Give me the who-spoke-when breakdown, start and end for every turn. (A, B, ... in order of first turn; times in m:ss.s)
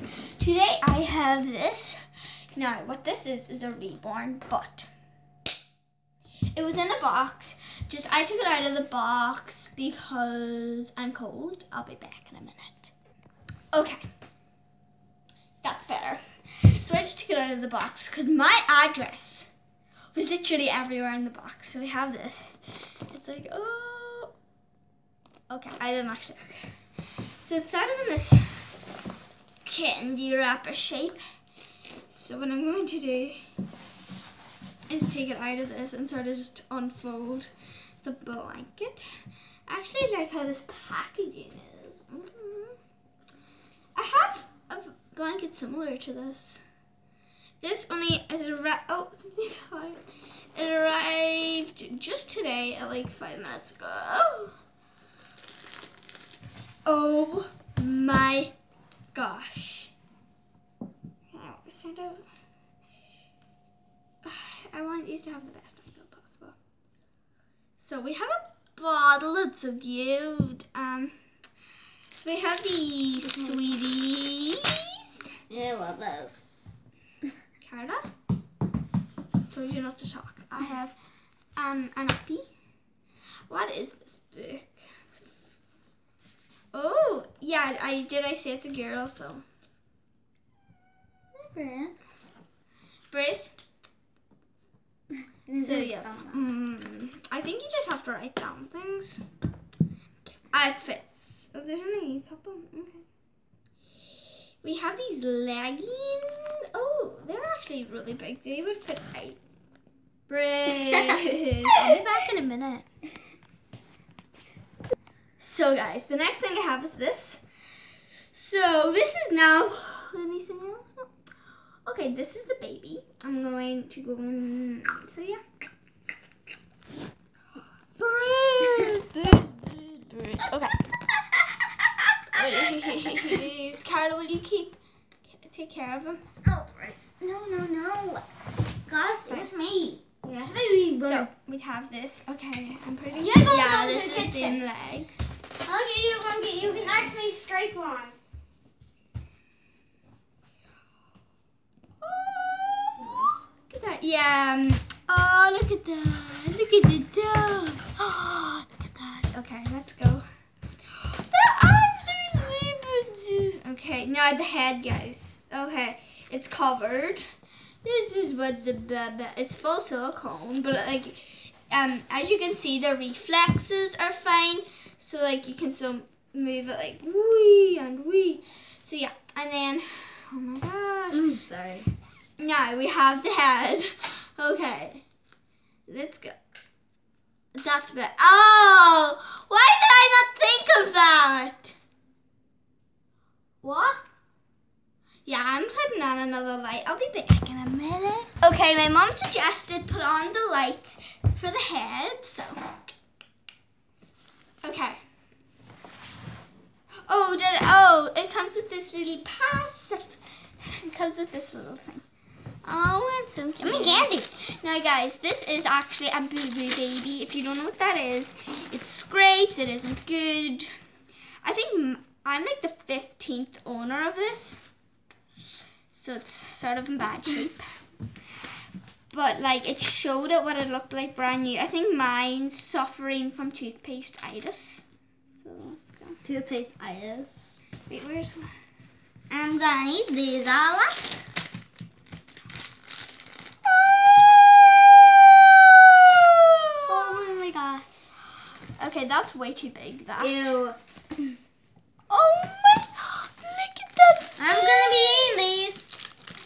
0:00.4-0:02.0 A
0:02.5-0:04.9 A
0:06.5-0:12.9 A
0:13.7-0:14.0 A
0:15.6-0:19.5 A
0:20.1-0:24.3 A
0:25.5-0:26.7 A
0:27.4-0:28.7 A
0:29.6-0:31.2 A
0:32.1-0:33.4 A
0:34.9-0:39.1 A
0:39.7-0:42.8 A
0:44.0-0:46.6 A
0:47.6-0:50.0 A
0:50.5-0:54.6 A
0:56.8-0:58.5 A
0:59.1-0:59.9 A
1:01.3-1:02.3 A
1:04.2-1:06.6 A
1:07.8-1:11.2 A
1:12.1-1:15.2 A
1:13.2-1:13.7 B
1:15.5-1:16.4 B
1:17.6-1:18.0 A
1:19.5-1:21.0 A
1:21.6-1:22.4 A
1:23.5-1:25.3 A
1:26.7-1:29.4 A
1:31.3-1:32.1 B
1:33.1-1:33.6 A
1:35.5-1:36.4 B
1:35.6-1:39.2 A
1:40.5-1:43.0 A
1:44.6-1:49.4 A
1:50.3-1:52.9 A
1:55.4-1:57.4 A
1:58.3-2:01.1 A
2:01.8-2:05.4 A
2:07.8-2:10.8 A
2:12.3-2:16.2 A
2:12.6-2:13.4 B
2:16.4-2:18.2 B
2:18.9-2:21.3 B
2:21.0-2:25.4 A
2:23.2-2:24.6 B
2:25.6-2:28.2 B
2:32.0-2:40.2 A
2:33.0-2:33.3 B
2:40.8-2:47.3 A
2:47.8-3:01.3 A
3:01.1-3:01.9 B
3:02.4-3:05.0 A
3:05.9-3:06.3 A
3:07.5-3:11.8 A
3:13.6-3:14.0 B
3:15.2-3:22.7 A
3:24.6-3:25.0 A
3:27.0-3:30.2 A
3:30.7-3:32.0 A
3:32.6-3:40.7 A
3:33.6-3:34.3 B
3:41.4-3:44.6 A
3:45.9-3:47.6 A
3:49.1-3:54.8 A
3:55.4-3:56.2 A
3:56.2-3:57.6 B
3:57.8-3:58.5 A
3:59.3-4:01.2 B
4:03.6-4:07.2 A
4:06.9-4:07.9 B
4:08.8-4:10.6 A
4:10.2-4:10.8 B
4:12.1-4:15.4 A
4:14.4-4:15.9 B